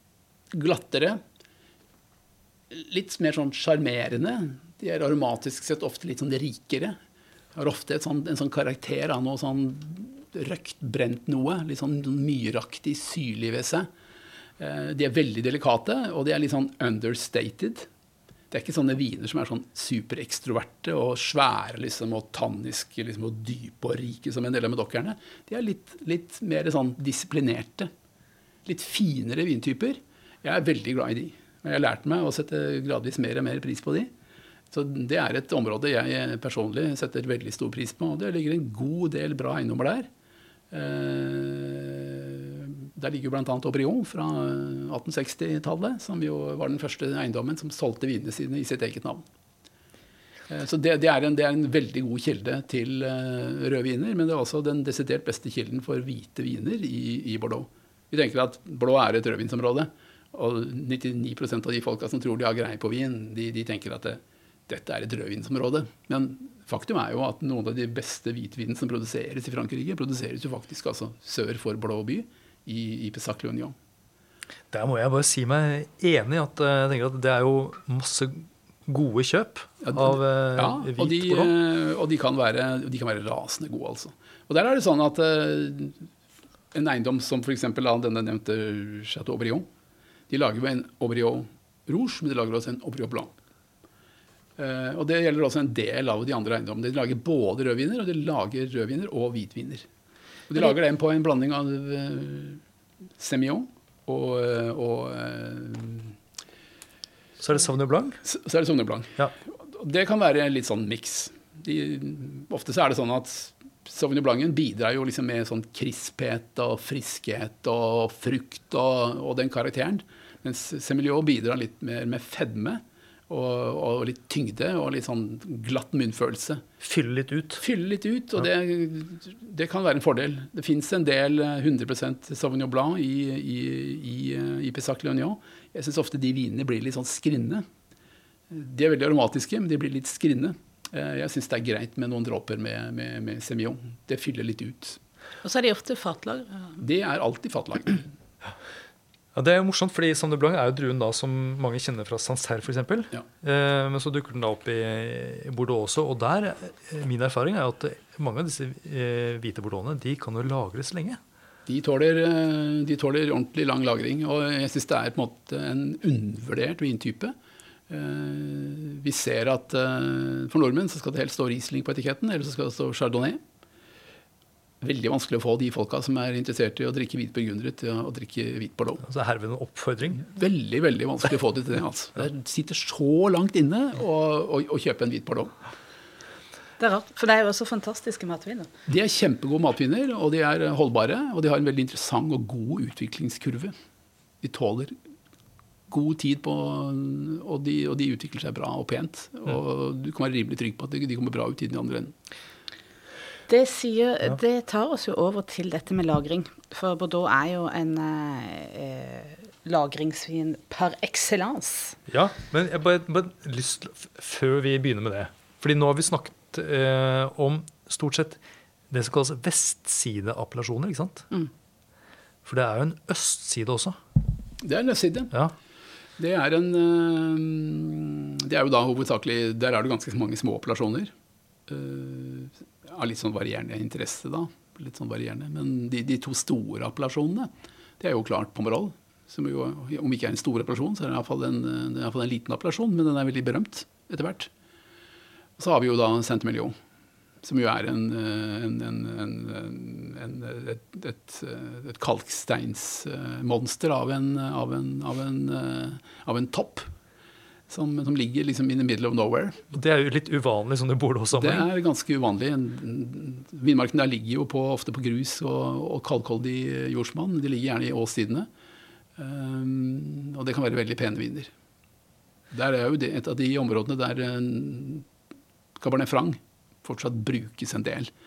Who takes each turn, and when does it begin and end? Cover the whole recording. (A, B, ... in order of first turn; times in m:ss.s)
0:00.5-0:01.2 A
0:02.7-0:07.0 A
0:07.5-0:13.9 A
0:14.6-0:17.9 A
0:18.5-0:27.9 A
0:28.6-0:34.1 A
0:34.7-0:40.1 A
0:40.7-0:49.2 A
0:50.5-1:13.7 A
1:14.7-1:21.5 B
1:19.8-1:26.1 A
1:26.7-1:29.7 A
1:30.3-1:33.3 A
1:34.6-1:39.9 A
1:40.5-1:42.6 A
1:43.2-1:46.2 A
1:47.4-1:48.2 B
1:48.2-2:06.6 A
2:06.8-2:07.6 B
2:07.6-2:17.6 A
2:18.5-2:25.0 A
2:25.4-2:26.8 C
2:26.8-2:28.0 A
2:29.3-2:41.2 B
2:41.7-2:47.3 A
2:47.9-2:53.4 A
2:54.8-2:59.0 A
2:59.0-3:00.3 B
3:00.2-3:05.5 A
3:06.8-3:08.7 C
3:08.9-3:13.7 A
3:14.4-3:14.9 A
3:15.9-3:22.1 A
3:23.5-3:32.0 C
3:32.1-3:38.4 B
3:38.9-3:41.3 B
3:42.4-3:44.0 B
3:44.6-3:45.3 A
3:46.2-3:51.1 A
3:51.7-4:04.5 A
4:05.6-4:06.7 A
4:07.4-4:16.9 A
4:17.7-4:19.7 A
4:19.7-4:21.6 B
4:21.3-4:28.5 A
4:29.2-4:31.5 A
4:32.5-4:35.1 A
4:35.8-4:38.1 A